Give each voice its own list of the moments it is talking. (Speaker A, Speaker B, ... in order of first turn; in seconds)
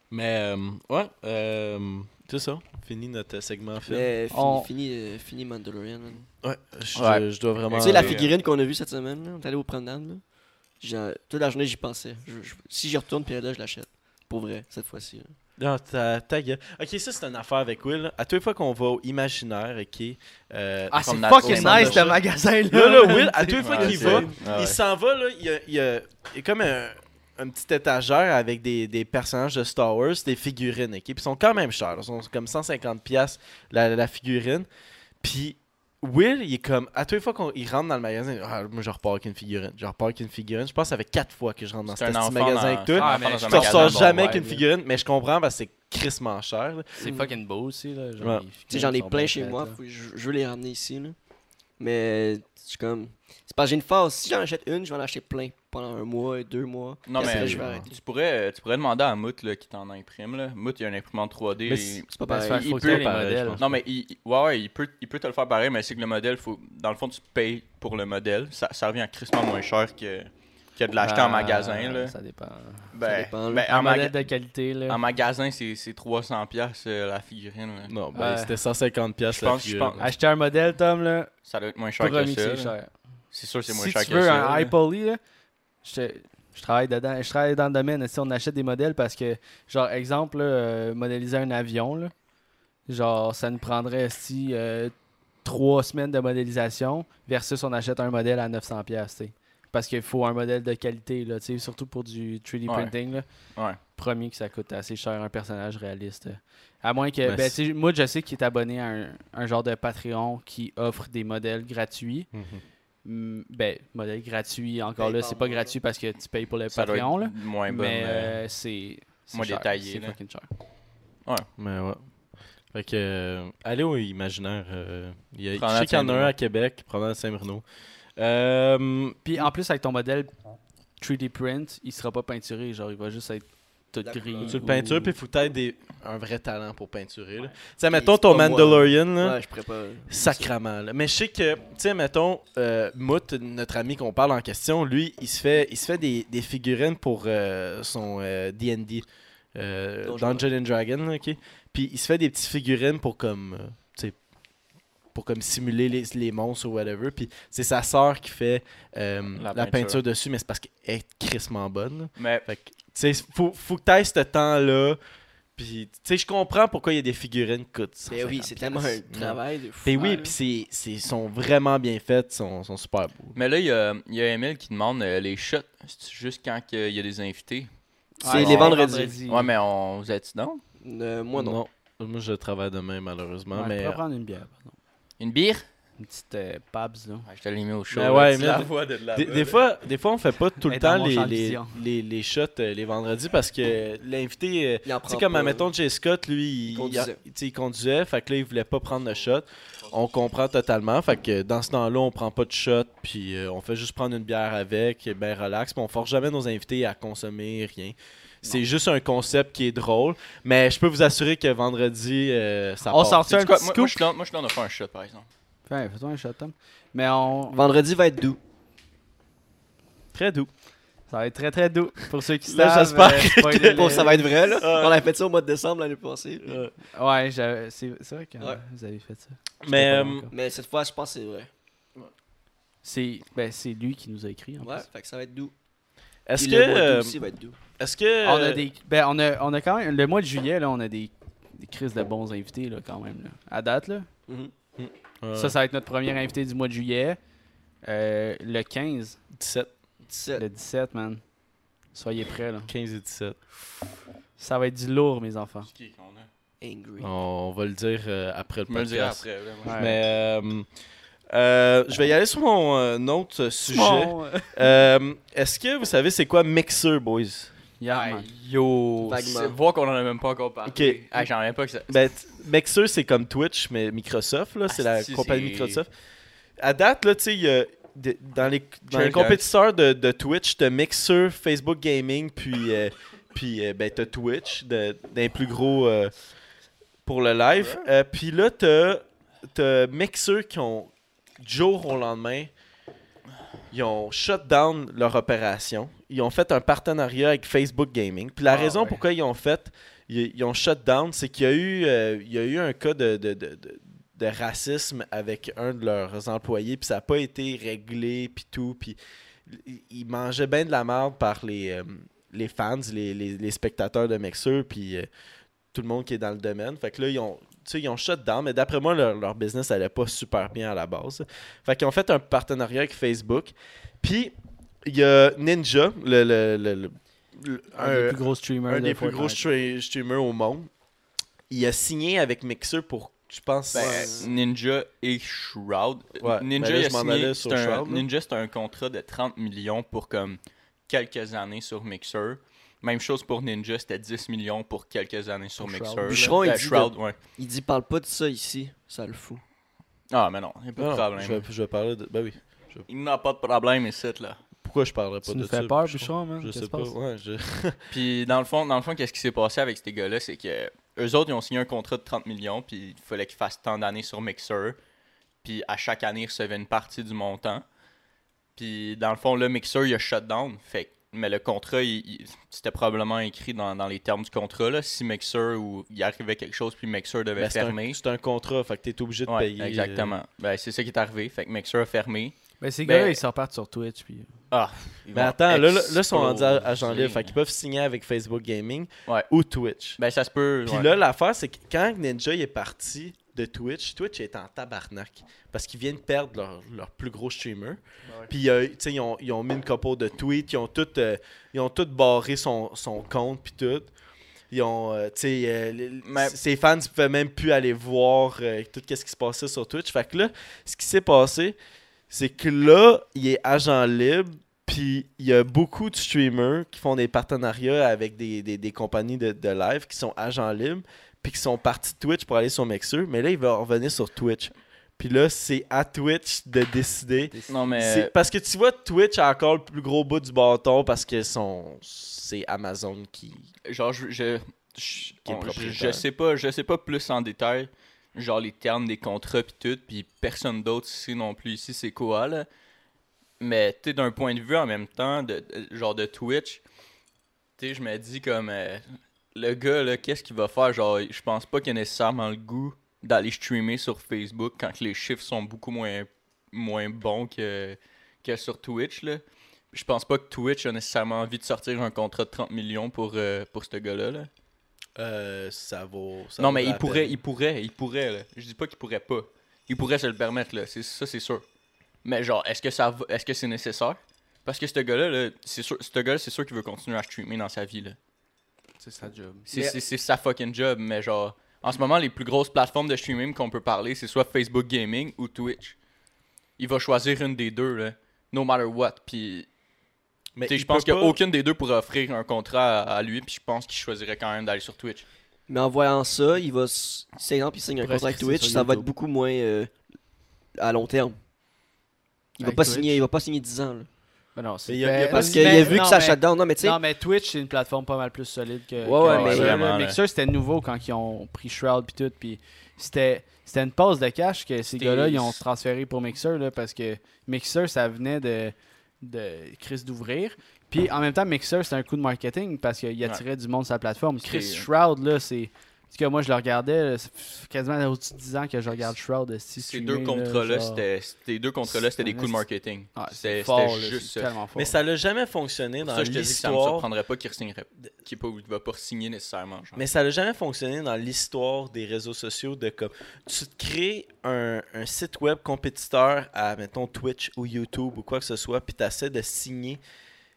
Speaker A: 0.1-4.1, 6.4-8.2, 15.6-34.7, 35.2-47.0, 48.2-48.4, 57.2-57.9, 62.6-63.8, 77.9-80.1, 107.2-107.6, 112.3-112.6, 121.6-122.1, 122.7-127.6, 128.2-129.4, 134.4-139.4, 140.1-154.2, 155.1-165.0, 165.6-173.4, 178.3-178.7, 181.3-184.0, 187.9-213.3, 220.1-220.5, 222.4-225.0, 226.4-226.7, 229.6-230.3, 236.3-237.2, 237.8-238.6, 244.8-245.6, 249.3-249.7, 252.7-253.4, 257.0-260.7, 261.3-267.5, 270.7-271.3, 271.9-275.9, 276.6-286.1, 287.0-292.5, 293.7-315.1, 315.7-324.3, 324.8-330.7, 331.5-334.2, 336.2-338.1, 350.8-352.8, 354.6-357.8, 377.4-380.1, 385.1-390.0, 390.6-403.9, 404.5-411.6, 412.1-433.5, 435.2-436.0, 465.0-467.2, 490.4-491.2, 504.7-505.8, 534.5-536.9, 539.8-549.8
Speaker B: 3.9-6.2, 7.8-15.3, 47.0-47.3, 48.7-51.1, 51.8-57.9, 62.1-62.9, 73.0-73.6, 115.0-115.8, 134.0-134.6, 137.9-140.5, 150.0-150.5, 168.1-170.3, 178.2-179.2, 180.8-181.6, 194.8-195.7, 196.7-197.2, 217.5-218.4, 223.6-226.6, 230.3-231.5, 234.6-235.5, 236.3-237.6, 244.3-244.5, 250.1-250.4, 256.6-257.1, 269.0-269.6, 333.7-334.3, 346.1-349.4, 495.5-499.7, 500.5-501.2, 502.4-503.9, 505.0-506.8, 508.8-509.6
Speaker C: 4.3-4.7, 20.9-24.4, 42.9-44.6, 47.0-49.8, 62.2-63.6, 71.0-72.9, 73.7-75.0, 78.1-78.5, 80.0-81.3, 82.0-82.9, 83.7-85.2, 85.8-92.1, 92.9-103.2, 104.0-112.3, 113.0-120.5, 129.2-130.3, 131.0-135.1, 178.2-179.5, 183.5-184.7, 186.0-187.3, 190.6-191.8, 212.8-214.0, 215.7-217.6, 221.1-224.3, 226.9-230.3, 232.8-234.8, 238.2-244.1, 245.3-247.2, 247.8-249.2, 250.4-251.2, 251.9-252.7, 254.4-255.7, 259.6-260.0, 263.7-264.6, 267.8-268.3, 298.5-298.9, 327.8-329.4, 345.6-346.4, 355.2-356.9, 382.6-384.3, 427.3-427.6, 478.8-479.5, 497.8-498.9, 502.4-503.0, 504.4-530.8, 531.7-532.4, 532.9-534.7
Speaker D: 6.9-8.3, 21.0-22.2, 23.6-24.8, 41.9-44.3, 57.1-62.1, 62.6-72.1, 72.9-74.2, 74.9-77.9, 79.3-80.1, 81.4-82.7, 83.3-84.7, 102.7-102.9, 116.7-118.4, 119.3-120.2, 125.5-126.3, 159.3-160.0, 162.2-162.4, 173.3-177.7, 178.3-180.6, 185.2-185.6, 187.2-189.6, 198.9-199.3, 199.8-200.2, 213.2-215.3, 255.7-256.3, 258.7-259.9, 267.9-272.0, 274.7-275.8, 278.9-279.5, 287.6-287.9, 333.7-347.2, 350.1-351.4, 352.9-354.4, 357.9-364.8, 365.4-367.6, 368.6-378.0, 379.2-383.2, 384.5-387.3, 390.0-390.9, 406.0-406.4, 427.5-428.1, 433.6-442.4, 443.4-446.6, 447.6-464.3, 466.4-471.4, 472.0-478.0, 479.5-485.7, 486.6-489.5, 490.5-495.0, 509.0-510.0, 514.7-515.4, 524.2-524.7, 529.6-534.3, 535.8-539.8